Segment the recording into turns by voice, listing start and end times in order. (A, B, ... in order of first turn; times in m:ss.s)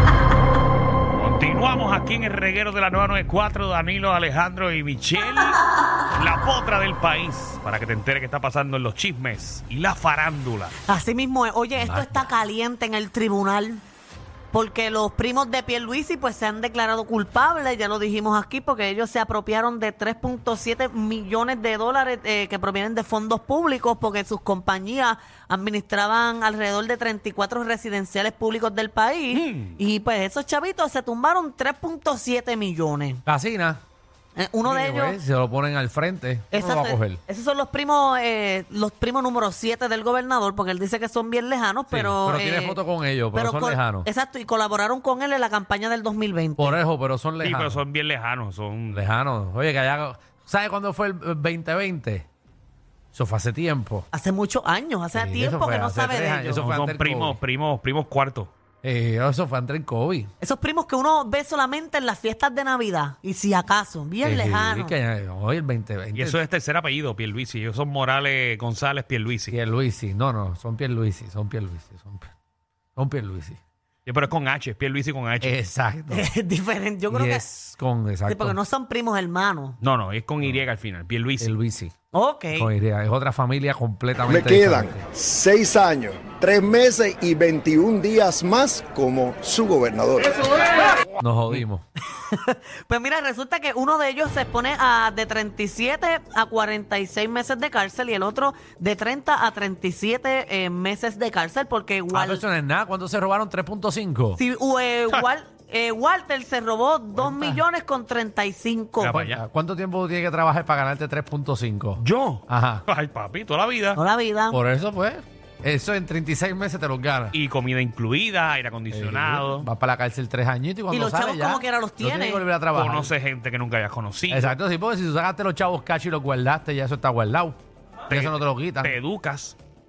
0:01.1-0:05.6 A
0:06.1-0:10.8 A
0:10.9-0:13.8 B
0:11.8-0:12.3 C
0:14.5-0:33.2 B
0:29.3-0:29.8 A
0:33.3-0:33.8 C
0:34.4-0:35.2 B
0:34.6-0:37.2 C
0:36.5-0:42.8 B
0:41.9-0:44.1 C
0:43.3-0:46.8 B
0:46.6-0:47.8 C
0:47.4-0:49.0 A
0:48.9-0:52.3 C
0:53.1-0:54.1 C
0:54.1-0:56.6 B
0:55.1-0:57.4 C
0:56.5-0:58.5 A
0:58.8-1:00.3 C
1:00.4-1:05.0 B
1:04.2-1:06.4 C
1:06.2-1:09.6 A
1:09.5-1:12.3 C
1:13.0-1:13.6 C
1:14.1-1:15.5 A
1:15.4-1:16.3 C
1:16.1-1:17.5 B
1:17.1-1:18.6 C
1:18.3-1:19.8 B
1:19.8-1:21.5 A
1:21.4-1:22.0 C
1:22.1-1:22.7 B
1:22.5-1:25.1 C
1:24.2-1:30.7 D
1:31.2-1:31.8 C
1:32.2-1:42.4 B
1:42.1-1:44.4 C
1:44.4-1:49.2 B
1:47.2-1:47.6 C
1:49.0-1:49.4 A
1:49.1-1:52.8 C
1:52.0-1:54.0 A
1:54.0-1:54.6 B
1:54.5-1:57.4 C
1:57.3-1:59.7 A
1:58.9-2:03.1 C
2:00.9-2:02.5 B
2:02.7-2:04.6 A
2:04.3-2:07.6 C
2:08.1-2:09.6 A
2:08.1-2:09.0 C